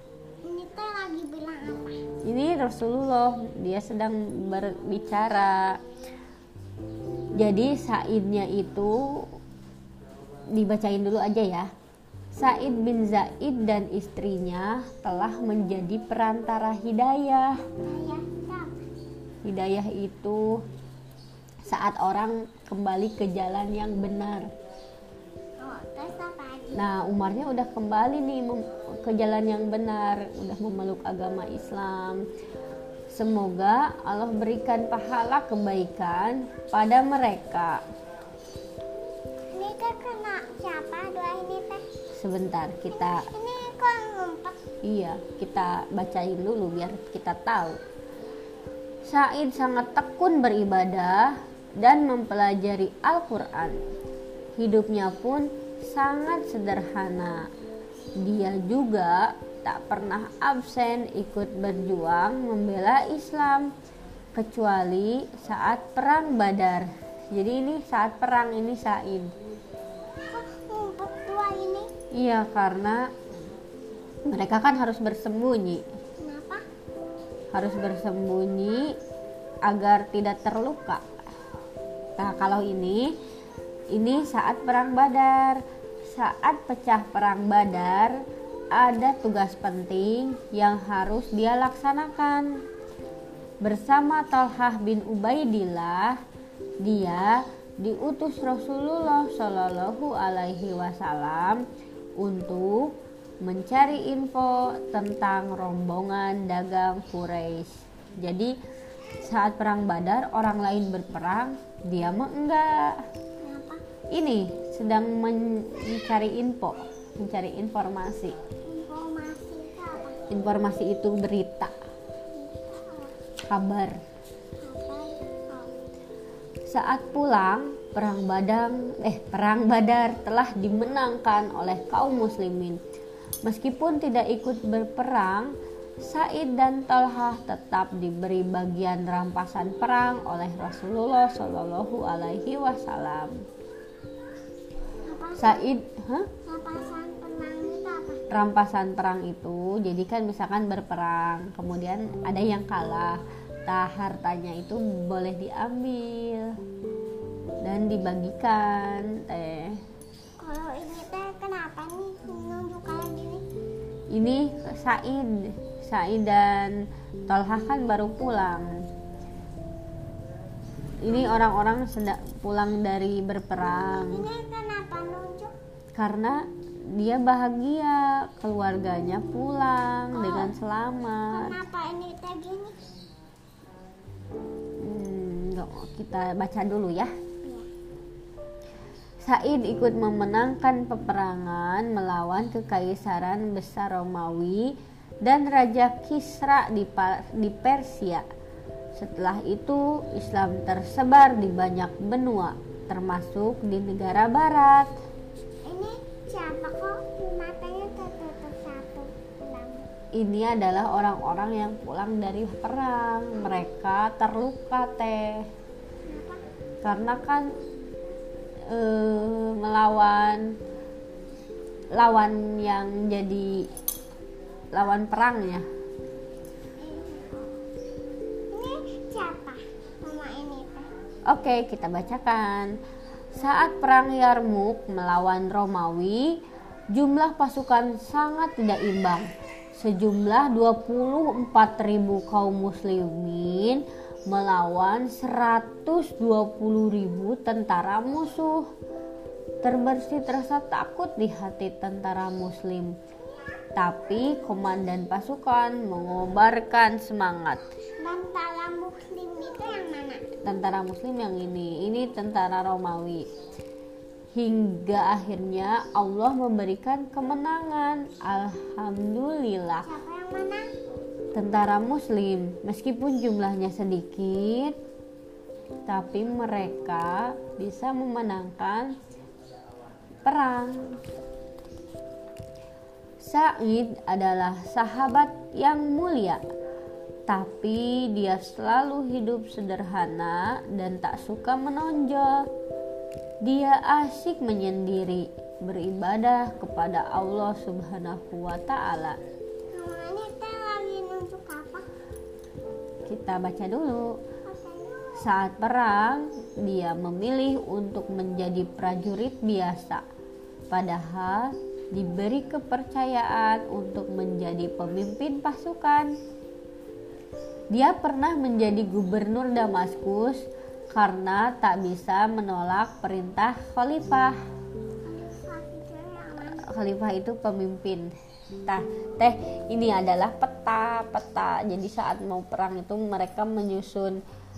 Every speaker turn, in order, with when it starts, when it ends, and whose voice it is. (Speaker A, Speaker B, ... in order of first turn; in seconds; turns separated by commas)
Speaker A: 0.5-2.0, Speaker B: 2.2-5.8, Speaker B: 7.3-9.2, Speaker B: 10.5-11.7, Speaker B: 12.3-17.5, Speaker A: 17.9-18.7, Speaker B: 19.4-20.6, Speaker B: 21.6-24.5, Speaker A: 25.6-26.9, Speaker B: 26.7-32.2, Speaker B: 33.1-37.8, Speaker A: 39.5-41.8, Speaker B: 42.1-43.2, Speaker A: 42.9-44.6, Speaker B: 44.8-47.8, Speaker B: 49.0-53.8, Speaker B: 54.6-57.4, Speaker B: 58.2-63.7, Speaker B: 64.3-69.3, Speaker A: 70.3-71.9, Speaker B: 72.1-73.1, Speaker B: 74.3-75.8, Speaker A: 76.2-76.6, Speaker B: 77.5-78.9, Speaker B: 79.7-81.0, Speaker B: 82.2-83.1, Speaker B: 83.9-88.2, Speaker B: 88.7-92.5, Speaker B: 93.6-96.2, Speaker B: 96.8-101.6, Speaker B: 102.2-102.9, Speaker B: 103.4-108.5, Speaker B: 109.2-113.0, Speaker A: 113.4-113.8, Speaker B: 114.1-118.3, Speaker A: 118.7-120.2, Speaker B: 120.3-121.7, Speaker A: 122.3-123.2, Speaker B: 123.5-124.0, Speaker A: 124.6-125.7, Speaker B: 126.7-132.8, Speaker B: 133.4-143.3, Speaker A: 145.1-145.7, Speaker B: 145.4-146.3, Speaker A: 146.4-148.2, Speaker B: 148.3-156.5, Speaker B: 157.6-159.8, Speaker A: 160.4-163.5, Speaker B: 164.1-168.7, Speaker B: 171.0-174.3, Speaker A: 173.9-175.5, Speaker B: 175.9-181.6, Speaker A: 180.1-180.5, Speaker A: 181.3-182.8, Speaker B: 184.8-187.1, Speaker B: 189.2-194.7, Speaker B: 195.2-198.2, Speaker B: 198.9-204.9, Speaker A: 205.7-209.9, Speaker B: 210.2-215.4, Speaker A: 216.1-216.4, Speaker B: 216.8-217.5, Speaker B: 218.7-220.5, Speaker B: 221.9-223.7, Speaker B: 224.7-225.6, Speaker A: 226.8-227.6, Speaker A: 228.5-230.9, Speaker B: 231.3-232.7, Speaker B: 233.3-236.3, Speaker B: 236.9-248.7, Speaker B: 249.6-252.9, Speaker B: 253.8-257.6, Speaker A: 258.0-260.2, Speaker B: 260.4-263.3, Speaker B: 264.3-269.9, Speaker A: 269.8-270.6, Speaker B: 271.3-274.7, Speaker B: 275.9-278.9, Speaker B: 280.2-281.0, Speaker B: 283.2-286.4, Speaker B: 287.3-292.4, Speaker B: 293.4-299.2, Speaker A: 299.7-301.9, Speaker B: 303.1-304.2, Speaker A: 304.4-305.2, Speaker B: 305.2-310.0, Speaker B: 310.7-316.1, Speaker B: 317.7-324.4, Speaker A: 325.1-326.7, Speaker B: 326.5-328.1, Speaker B: 328.6-334.2